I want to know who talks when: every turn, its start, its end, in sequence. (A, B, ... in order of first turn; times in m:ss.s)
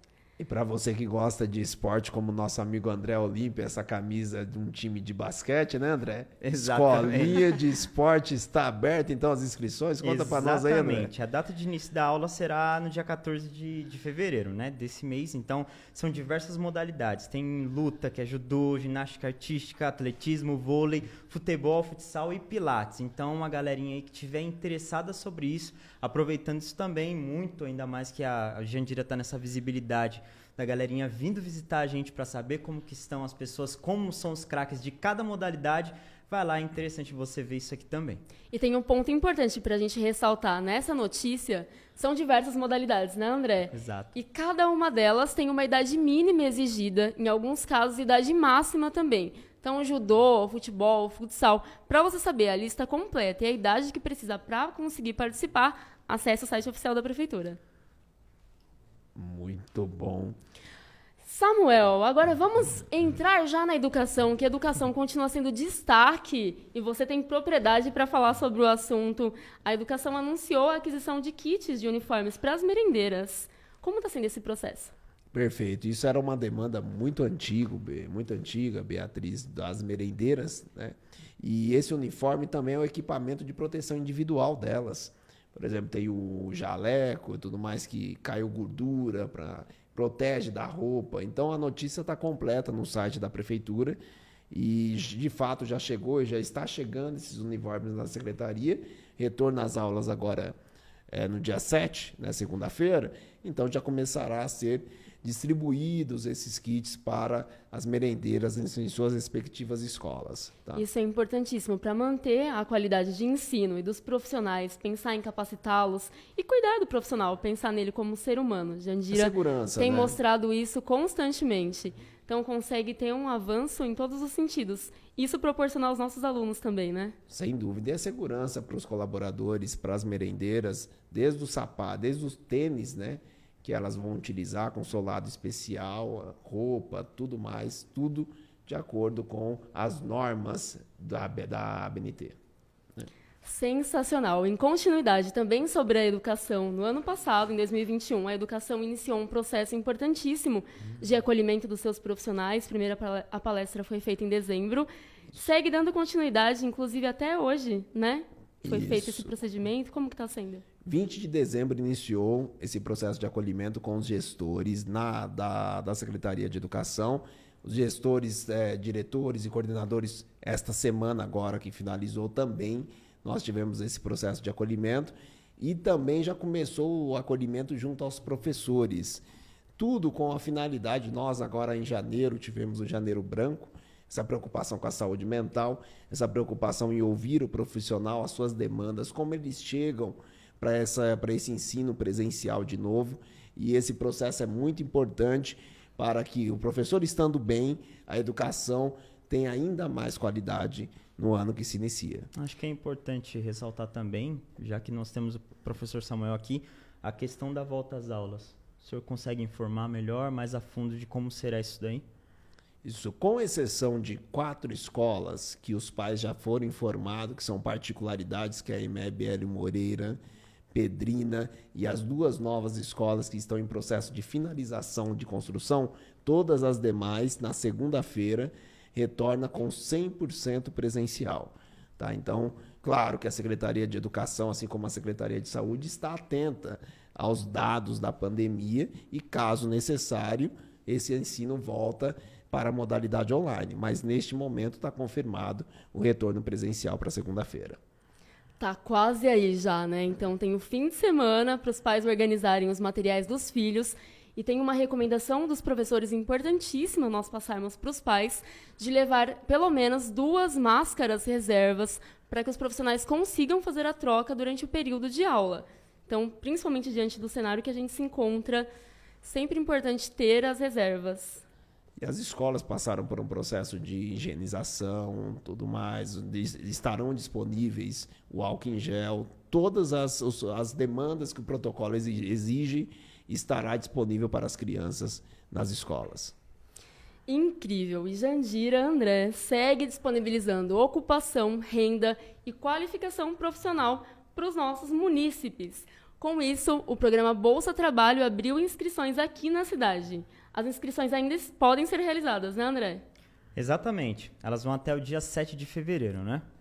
0:00.4-0:11.1 A
0:06.4-0:07.6 B
0:10.0-0:38.2 B
0:38.5-0:57.6 C
0:43.7-0:44.1 B
0:59.1-1:00.4 A
1:01.2-1:14.9 C
1:15.3-1:34.0 A
1:34.5-1:40.5 A
1:41.1-1:50.8 A
1:50.7-2:07.2 C
1:59.1-2:00.2 A
2:07.3-2:22.4 A
2:23.4-2:40.6 C
2:38.6-2:39.3 A
2:40.8-2:59.2 A
2:59.8-3:22.3 A
3:22.3-3:32.0 B
3:32.8-3:40.2 A
3:40.7-4:07.8 A
4:08.6-4:28.7 C
4:29.2-4:31.4 C
4:32.0-4:46.3 A
4:47.3-5:03.0 C
5:03.6-5:06.4 B